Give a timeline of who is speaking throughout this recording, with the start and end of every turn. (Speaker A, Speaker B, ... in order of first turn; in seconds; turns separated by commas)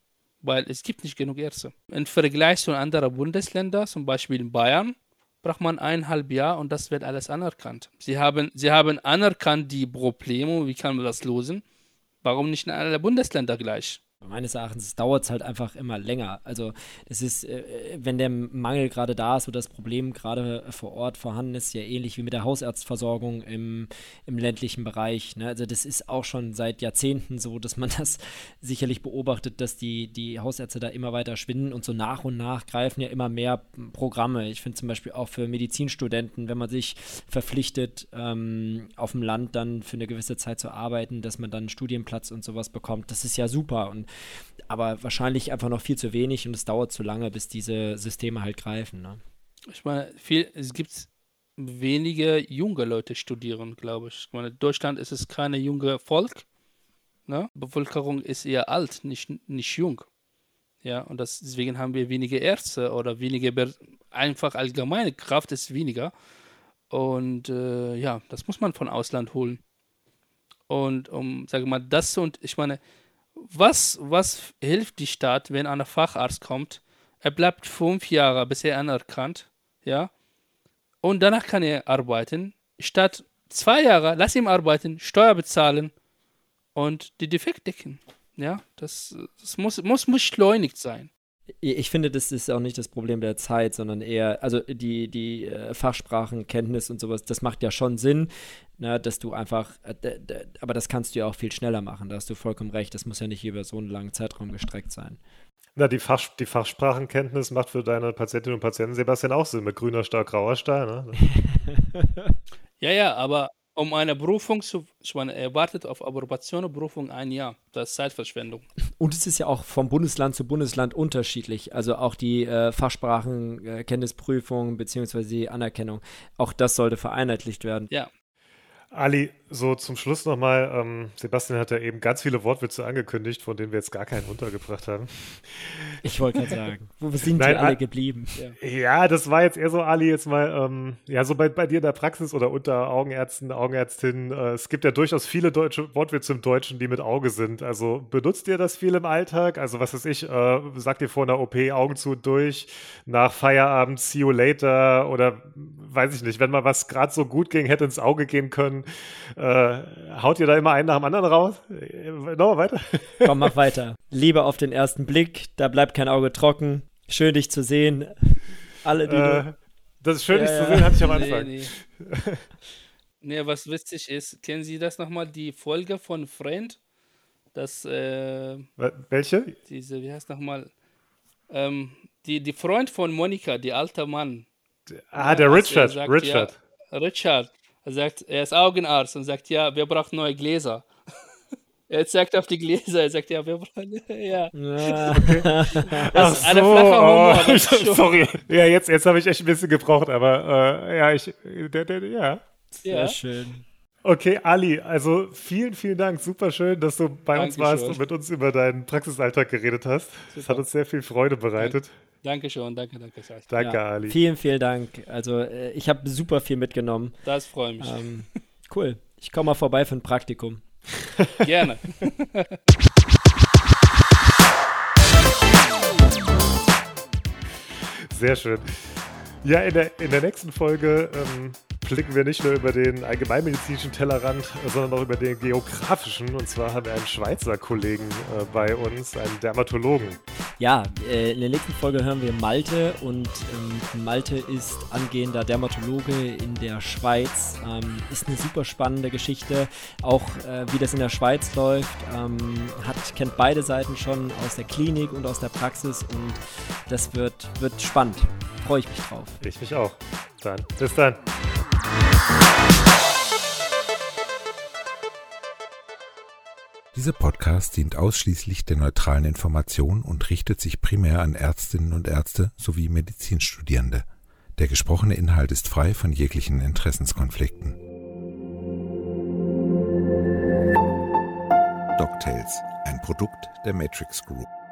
Speaker A: 0.4-11.6, Speaker A: 12.2-14.0, Speaker B: 14.2-44.1, Speaker B: 44.7-49.2, Speaker A: 49.7-56.4, Speaker A: 57.3-60.0, Speaker A: 60.8-66.1, Speaker A: 66.9-69.6, Speaker A: 70.7-72.8, Speaker A: 73.4-80.1, Speaker A: 81.0-85.9, Speaker A: 86.7-91.1, Speaker B: 91.6-105.2, Speaker C: 105.8-111.2, Speaker B: 111.3-112.3, Speaker A: 112.8-118.7, Speaker B: 119.0-127.9, Speaker C: 128.9-136.0, Speaker B: 136.0-138.3, Speaker C: 137.3-137.8, Speaker C: 138.6-163.5, Speaker B: 163.2-169.4, Speaker C: 169.1-172.4, Speaker A: 170.3-171.7, Speaker A: 173.2-176.8, Speaker A: 177.5-178.7, Speaker C: 178.8-179.6, Speaker A: 179.7-180.7, Speaker A: 181.5-184.5, Speaker C: 184.9-186.6, Speaker A: 185.1-190.9, Speaker A: 191.9-195.2, Speaker B: 194.5-196.5, Speaker C: 195.1-202.4, Speaker A: 195.7-198.3, Speaker B: 202.8-203.6, Speaker A: 202.8-203.2, Speaker C: 204.0-211.9, Speaker A: 207.3-208.0, Speaker A: 210.3-210.6, Speaker A: 211.6-213.5, Speaker C: 213.5-214.2, Speaker B: 213.6-217.2, Speaker A: 217.2-218.1, Speaker B: 217.8-220.6, Speaker A: 221.4-222.6, Speaker C: 228.1-240.2, Speaker B: 240.6-259.4, Speaker C: 259.4-261.2, Speaker D: 266.9-274.1, Speaker D: 274.6-277.8, Speaker D: 282.0-284.5